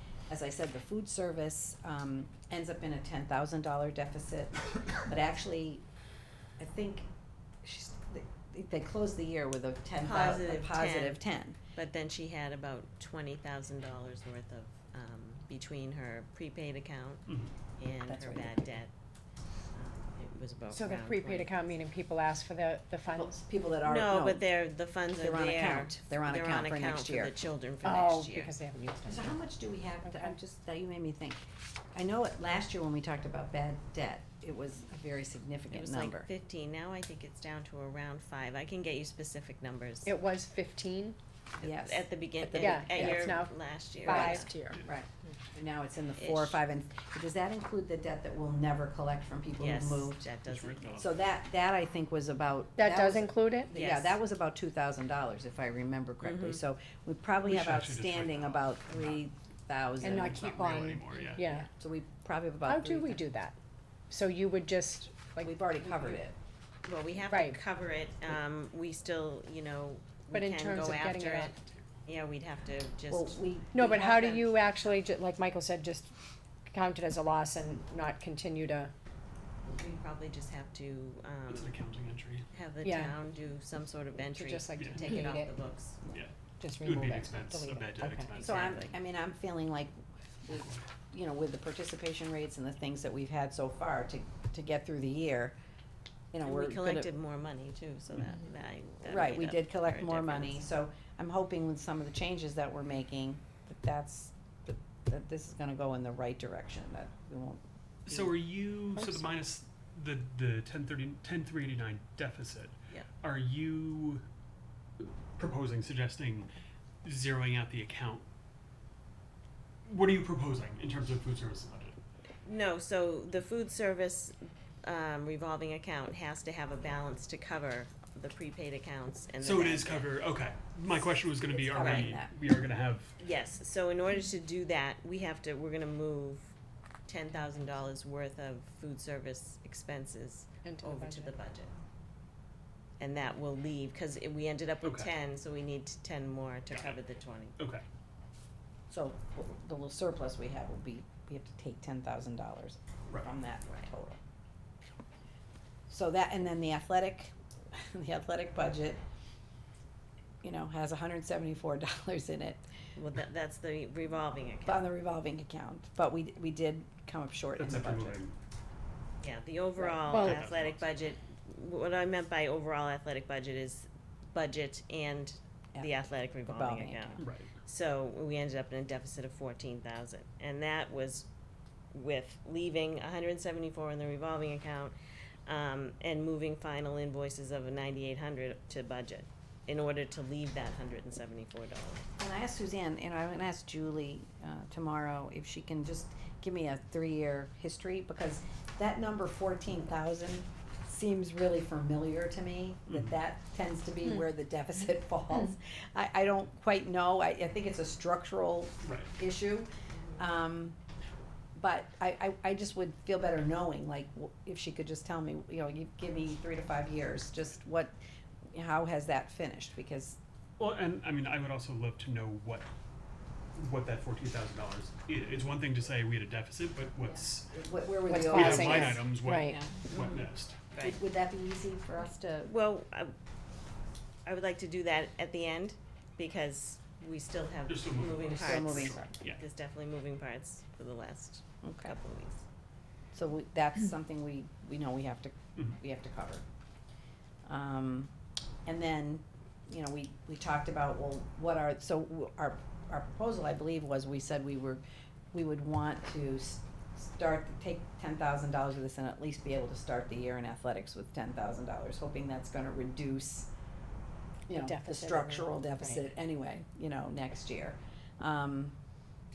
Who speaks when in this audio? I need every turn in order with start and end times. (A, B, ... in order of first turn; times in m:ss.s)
0:00.3-0:05.8 A
0:06.6-0:07.1 A
0:07.6-0:11.6 A
0:10.0-0:11.2 B
0:11.7-0:17.2 B
0:17.3-0:17.5 C
0:17.8-0:18.9 B
0:18.1-0:18.7 A
0:19.7-0:21.6 B
0:20.7-0:23.4 D
0:23.1-0:24.5 A
0:23.8-0:28.5 B
0:25.2-0:27.3 A
0:27.8-0:29.4 D
0:29.0-0:31.4 A
0:30.0-0:30.3 D
0:31.9-0:36.3 A
0:35.7-0:40.1 B
0:40.0-0:41.2 D
0:41.6-0:44.5 B
0:41.6-0:43.4 A
0:42.6-0:44.8 D
0:44.0-0:50.2 A
0:46.2-0:46.6 B
0:49.6-0:51.0 B
0:50.4-0:51.1 C
0:51.0-1:00.9 A
0:52.8-0:53.7 D
0:53.7-0:54.2 B
0:56.2-0:56.6 B
0:57.4-0:59.2 C
1:00.0-1:01.5 C
1:00.0-1:01.7 D
1:01.6-1:03.2 A
1:02.6-1:03.6 D
1:04.1-1:06.2 D
1:05.4-1:06.4 A
1:06.8-1:11.5 B
1:07.3-1:07.6 D
1:10.3-1:11.5 D
1:12.0-1:14.5 B
1:13.1-1:13.8 A
1:13.7-1:16.1 D
1:16.7-1:18.9 D
1:19.7-1:21.7 B
1:21.5-1:22.5 C
1:22.5-1:26.0 B
1:22.8-1:23.1 D
1:24.2-1:25.5 D
1:26.1-1:28.9 C
1:26.6-1:28.3 D
1:28.3-1:28.9 B
1:28.4-1:29.9 A
1:30.4-1:35.5 A
1:30.5-1:30.8 C
1:36.3-1:37.1 A
1:36.4-1:40.6 B
1:39.0-1:48.3 A
1:48.1-1:54.2 C
1:55.0-1:56.5 C
1:57.0-1:58.2 C
1:59.8-2:02.0 C
2:02.4-2:10.1 B
2:09.4-2:13.2 C
2:11.5-2:12.3 A
2:11.8-2:12.1 B
2:13.2-2:16.5 B
2:17.1-2:21.7 B
2:20.6-2:21.3 D
2:23.0-2:27.6 B
2:24.8-2:25.1 C
2:26.7-2:27.0 C
2:27.6-2:27.8 C
2:28.9-2:34.2 A
2:35.9-2:39.0 A
2:40.4-2:42.6 A
2:43.0-2:44.9 B
2:44.6-2:48.2 A
2:47.6-2:48.4 C
2:49.2-3:01.3 B
2:49.8-2:50.0 A
2:50.1-2:50.4 D
2:50.1-2:51.0 C
2:56.4-2:57.3 A
2:57.2-2:57.5 C
3:01.9-3:04.9 B
3:05.4-3:12.0 B
3:12.2-3:30.8 A
3:22.9-3:23.1 C
3:28.8-3:29.1 C
3:31.5-3:37.9 A
3:38.5-3:40.2 A
3:40.6-3:42.7 C
3:43.5-3:47.5 C
3:47.0-3:50.0 A
3:48.1-3:49.6 D
3:48.3-3:50.7 C
3:50.7-3:51.0 B
3:50.8-3:52.5 A
3:52.4-3:53.1 B
3:54.2-4:02.4 B
3:57.7-3:59.4 C
3:58.4-3:59.1 A
4:01.6-4:01.9 A
4:03.1-4:06.4 A
4:07.4-4:08.1 A
4:08.6-4:14.8 A
4:15.3-4:23.5 A
4:24.5-4:28.7 A
4:24.5-4:26.0 D